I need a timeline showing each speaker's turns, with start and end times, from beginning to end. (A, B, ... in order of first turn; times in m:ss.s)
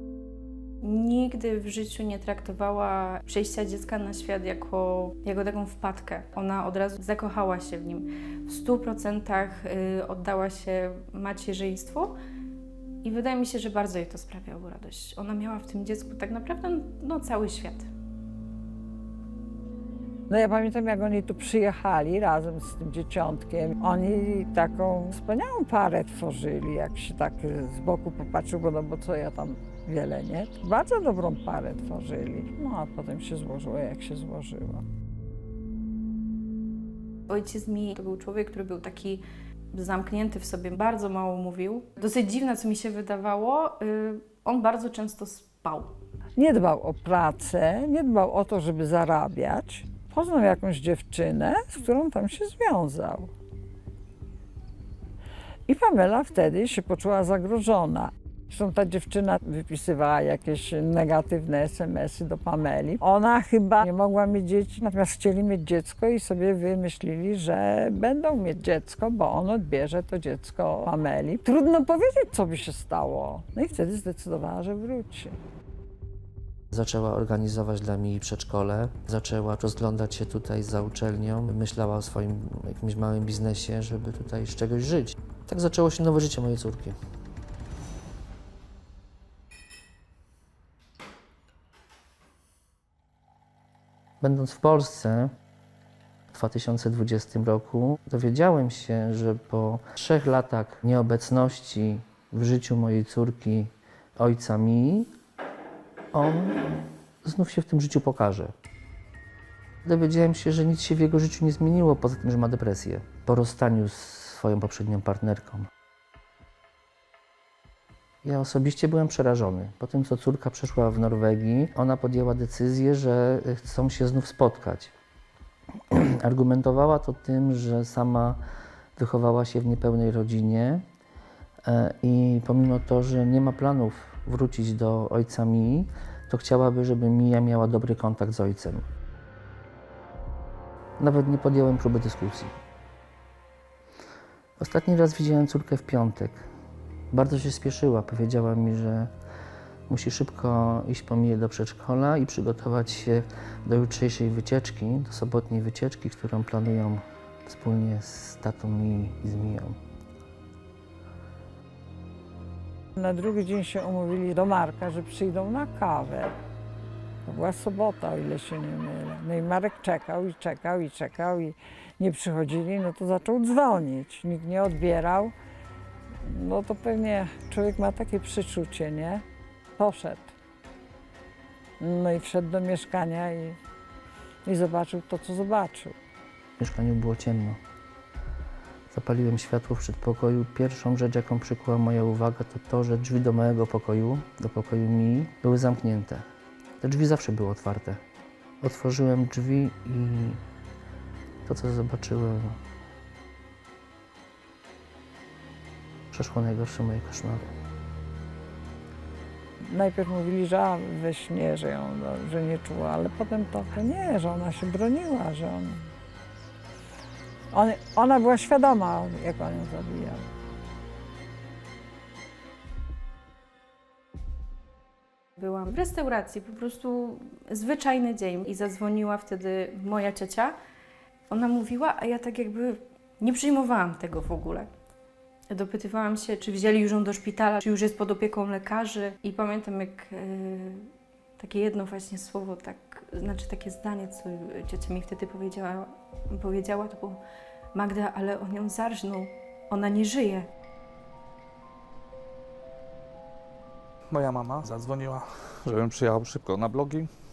0:00.8-0:12.1 A
0:13.0-0:17.9 A
0:20.3-0:34.8 B
0:37.3-0:45.9 A
0:46.4-0:53.3 B
0:55.7-1:15.4 B
1:16.7-1:27.0 C
1:34.2-1:35.3 C
1:36.3-1:45.1 C
1:46.1-1:48.5 C
1:49.8-1:55.7 C
1:58.2-2:04.9 C
2:05.9-2:08.4 C
2:09.0-2:10.8 C
2:11.6-2:18.8 C
2:21.0-2:22.5 C
2:24.6-2:26.5 C
2:27.1-2:29.1 C
2:29.9-2:39.8 C
2:43.0-2:46.3 B
2:47.2-2:55.3 B
2:56.2-2:59.2 B
2:59.8-3:00.3 B
3:01.8-3:03.6 B
3:04.4-3:06.0 B
3:06.6-3:07.6 C
3:08.9-3:16.2 C
3:16.8-3:18.0 C
3:18.6-3:20.4 C
3:21.4-3:22.6 C
3:26.1-3:27.5 C
3:29.6-3:35.9 B
3:37.5-3:40.2 B
3:45.4-3:50.5 A
3:51.3-3:54.7 A
3:55.5-4:07.2 A
4:07.7-4:10.5 A
4:14.1-4:17.1 D